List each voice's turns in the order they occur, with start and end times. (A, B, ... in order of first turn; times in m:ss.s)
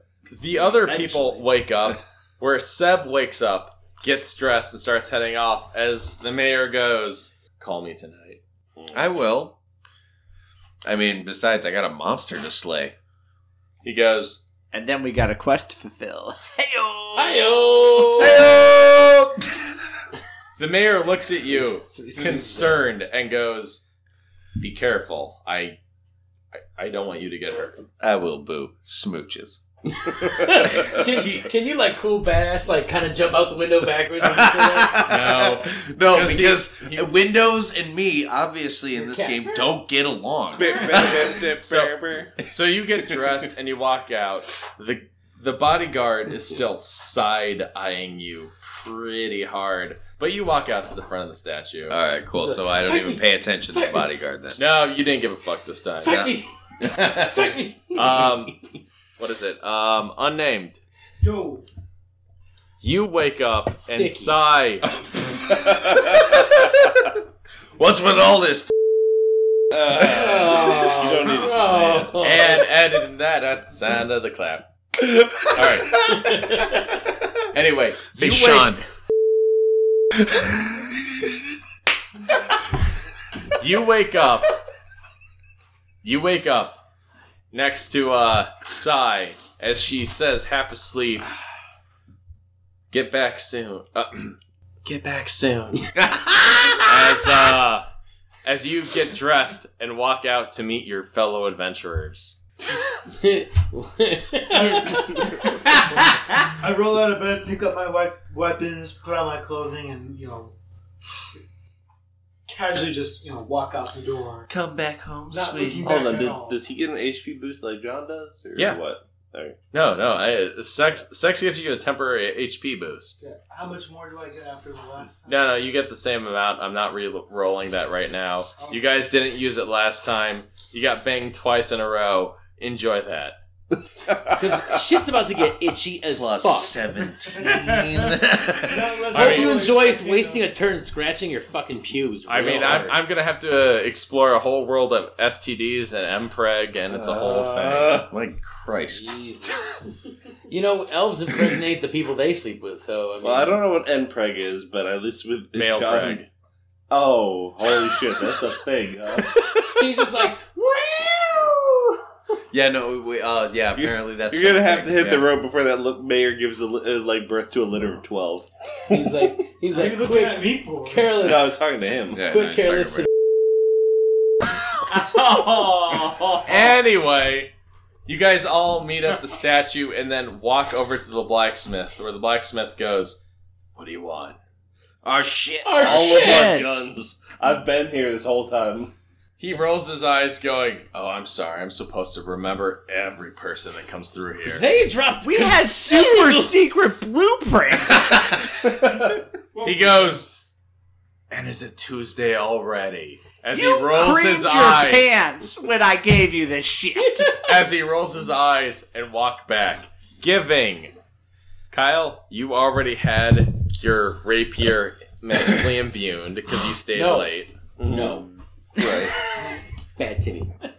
0:00.3-0:08.4 A
0:00.5-0:01.4 B
0:08.8-0:09.2 C
0:08.9-0:09.6 D
0:10.8-0:12.9 D
0:13.8-0:14.4 A
0:14.7-0:17.6 B
0:17.2-0:18.5 E
0:18.1-0:19.5 D
0:20.6-0:23.8 A
0:21.5-0:22.8 E
0:24.6-0:25.8 A
0:26.6-0:27.8 A
0:28.0-0:29.6 D
0:29.9-0:35.1 E
0:34.2-0:41.4 D
0:35.1-0:37.1 A
0:39.0-0:39.7 E
0:40.5-0:42.3 C
0:41.6-0:52.0 A
0:51.9-0:54.6 D
0:52.4-0:54.1 E
0:54.6-0:56.2 A
0:56.0-0:58.5 E
0:56.1-0:57.0 D
0:57.9-0:58.6 A
0:59.2-1:00.8 A
1:01.2-1:01.6 F
1:02.8-1:04.9 A
1:03.8-1:04.4 E
1:05.0-1:07.1 D
1:07.8-1:08.7 D
1:09.7-1:12.2 C
1:09.9-1:12.7 E
1:12.2-1:14.7 A
1:15.4-1:16.1 A
1:16.1-1:17.0 E
1:17.5-1:18.8 A
1:18.2-1:18.8 D
1:23.6-1:24.5 A
1:26.0-1:26.8 A
1:27.5-1:31.3 A
1:32.9-1:35.9 A
1:36.1-1:36.8 D
1:36.8-1:37.9 A
1:38.4-1:42.4 A
1:43.0-1:45.4 E
1:44.5-1:45.4 D
1:46.0-1:50.6 F
1:52.5-1:54.5 F
1:54.5-1:56.0 D
1:55.3-1:56.6 F
1:55.8-1:59.6 C
1:59.7-2:03.2 A
2:03.2-2:05.6 F
2:05.3-2:13.4 A
2:08.6-2:08.8 F
2:14.0-2:14.8 C
2:14.3-2:16.8 E
2:16.1-2:19.0 D
2:17.4-2:17.9 F
2:18.6-2:20.5 F
2:19.1-2:19.6 A
2:19.1-2:23.0 E
2:22.3-2:28.1 A
2:26.9-2:28.1 C
2:27.9-2:29.2 D
2:28.9-2:33.6 E
2:33.2-2:36.2 C
2:35.5-2:36.3 A
2:36.9-2:39.4 C
2:39.5-2:42.0 E
2:42.5-2:45.3 D
2:43.8-2:48.5 C
2:48.9-2:51.6 E
2:49.7-2:51.2 F
2:51.2-2:52.2 C
2:52.2-2:53.1 D
2:52.2-2:53.1 E
2:54.9-2:56.8 B
2:56.4-2:57.5 A
2:58.1-3:03.2 A
3:03.8-3:04.4 A
3:05.0-3:06.4 D
3:05.6-3:06.7 E
3:05.8-3:08.9 C
3:06.2-3:06.8 B
3:09.4-3:14.7 A
3:14.5-3:16.6 E
3:15.2-3:18.3 B
3:19.5-3:20.5 F
3:19.6-3:20.4 A
3:21.3-3:25.1 A
3:23.5-3:27.3 B
3:27.0-3:27.4 E
3:27.4-3:30.9 A
3:31.7-3:37.5 A
3:36.9-3:37.4 E
3:37.8-3:38.2 C
3:37.9-3:38.2 E
3:38.8-3:39.2 C
3:39.2-3:40.5 E